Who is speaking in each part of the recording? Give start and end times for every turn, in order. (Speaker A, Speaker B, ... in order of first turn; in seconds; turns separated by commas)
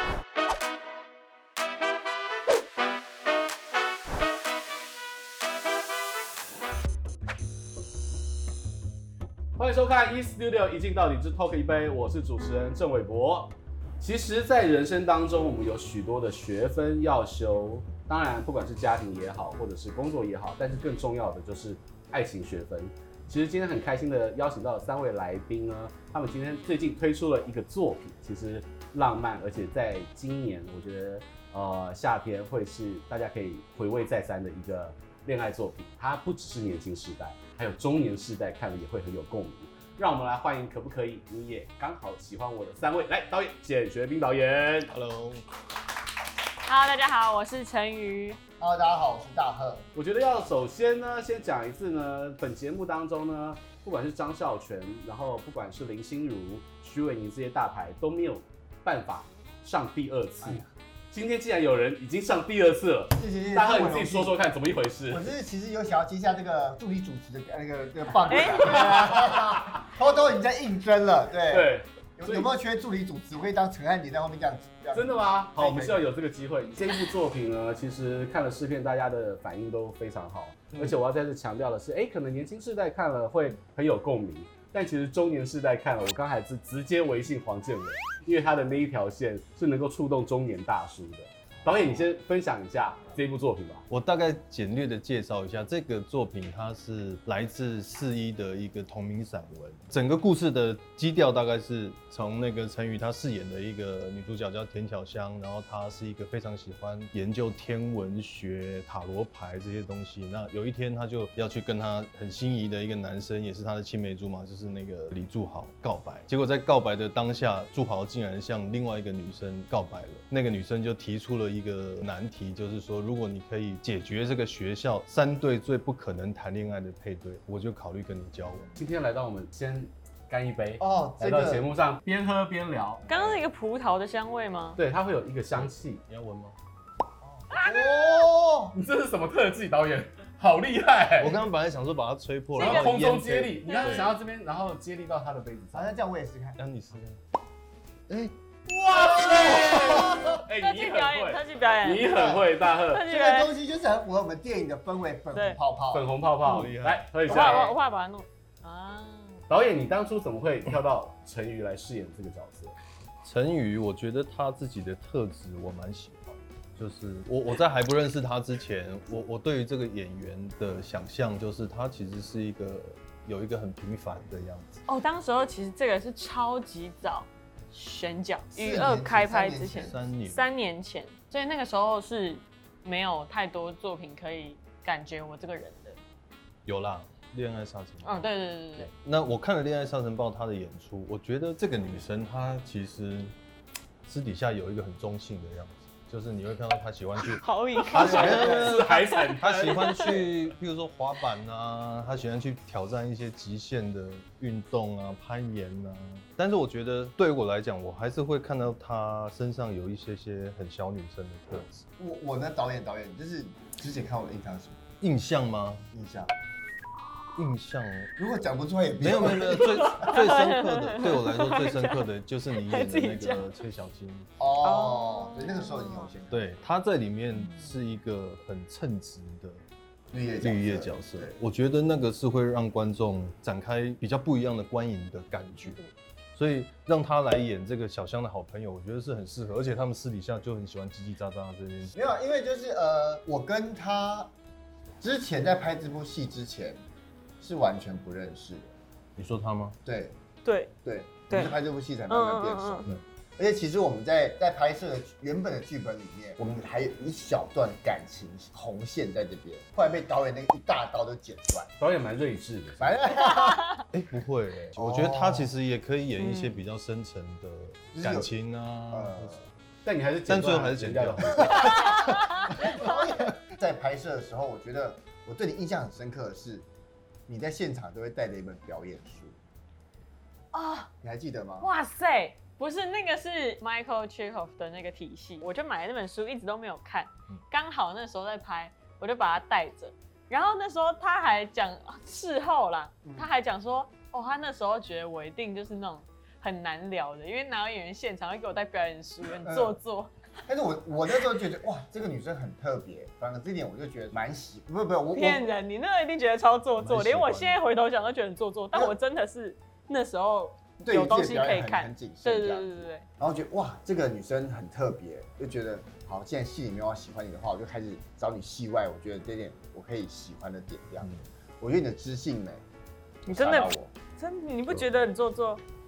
Speaker A: 9.6-44.9, Speaker B: 44.9-45.4, Speaker C: 46.6-48.4, Speaker D: 48.6-49.8, Speaker A: 49.9-65.3, Speaker D: 60.4-60.7, Speaker D: 63.1-64.4, Speaker D: 65.1-76.1, Speaker C: 68.3-68.7, Speaker A: 68.4-69.5, Speaker A: 71.5-72.5, Speaker A: 74.9-93.8, Speaker B: 91.7-92.1, Speaker B: 93.9-128.7, Speaker A: 128.8-133.0, Speaker D: 130.8-131.7, Speaker D: 133.1-133.4, Speaker C: 133.1-134.8, Speaker A: 134.8-136.0, Speaker B: 135.5-136.6, Speaker D: 137.2-138.8, Speaker C: 137.5-138.1, Speaker A: 138.7-141.4, Speaker B: 141.2-144.2, Speaker A: 142.5-146.0, Speaker C: 142.6-142.9, Speaker C: 143.7-144.0, Speaker D: 145.7-146.6, Speaker B: 146.6-147.2, Speaker A: 148.7-153.0, Speaker D: 148.9-150.3, Speaker B: 149.6-149.9, Speaker C: 150.6-152.1, Speaker D: 152.1-152.5, Speaker C: 152.9-153.5, Speaker D: 153.0-156.1, Speaker C: 155.3-155.6, Speaker A: 155.9-157.8, Speaker B: 156.4-157.4, Speaker C: 157.2-159.4, Speaker A: 159.5-162.8, Speaker B: 163.2-174.8, Speaker C: 174.9-186.0, Speaker D: 178.5-180.0, Speaker B: 179.8-180.5, Speaker B: 186.7-188.3, Speaker C: 188.0-188.9, Speaker B: 189.0-193.3, Speaker B: 194.0-211.8, Speaker C: 197.2-199.3, Speaker D: 197.9-198.8, Speaker A: 198.0-200.4, Speaker D: 212.0-214.8, Speaker B: 215.0-215.9, Speaker D: 215.9-216.3, Speaker B: 217.3-218.1, Speaker D: 218.2-220.1, Speaker B: 219.0-224.3, Speaker C: 219.6-222.0, Speaker C: 222.5-223.5, Speaker D: 224.4-226.5, Speaker C: 224.6-226.1, Speaker B: 226.3-229.6, Speaker C: 227.3-227.7, Speaker D: 230.1-231.3, Speaker B: 230.4-235.8, Speaker C: 235.6-235.9, Speaker B: 236.3-242.0, Speaker D: 241.9-244.3, Speaker D: 245.0-246.8, Speaker D: 247.4-248.7, Speaker B: 249.2-249.8, Speaker D: 249.8-250.1, Speaker C: 250.4-250.7, Speaker D: 250.8-261.7, Speaker C: 251.3-251.6, Speaker C: 252.1-252.9, Speaker A: 261.8-263.0, Speaker D: 262.8-263.7, Speaker B: 263.9-269.4, Speaker D: 264.8-265.5, Speaker C: 266.2-266.6, Speaker D: 267.9-268.3, Speaker D: 268.9-269.5, Speaker A: 269.8-271.7, Speaker B: 270.2-272.8, Speaker C: 271.6-272.9, Speaker D: 272.4-276.6, Speaker D: 277.3-279.4, Speaker C: 280.5-280.9, Speaker D: 281.0-281.7, Speaker C: 281.6-300.1, Speaker D: 293.0-293.3, Speaker D: 299.3-299.8, Speaker D: 300.5-305.4, Speaker C: 305.1-313.1, Speaker B: 306.8-307.6, Speaker D: 310.8-322.6, Speaker C: 323.3-325.6, Speaker D: 323.3-323.9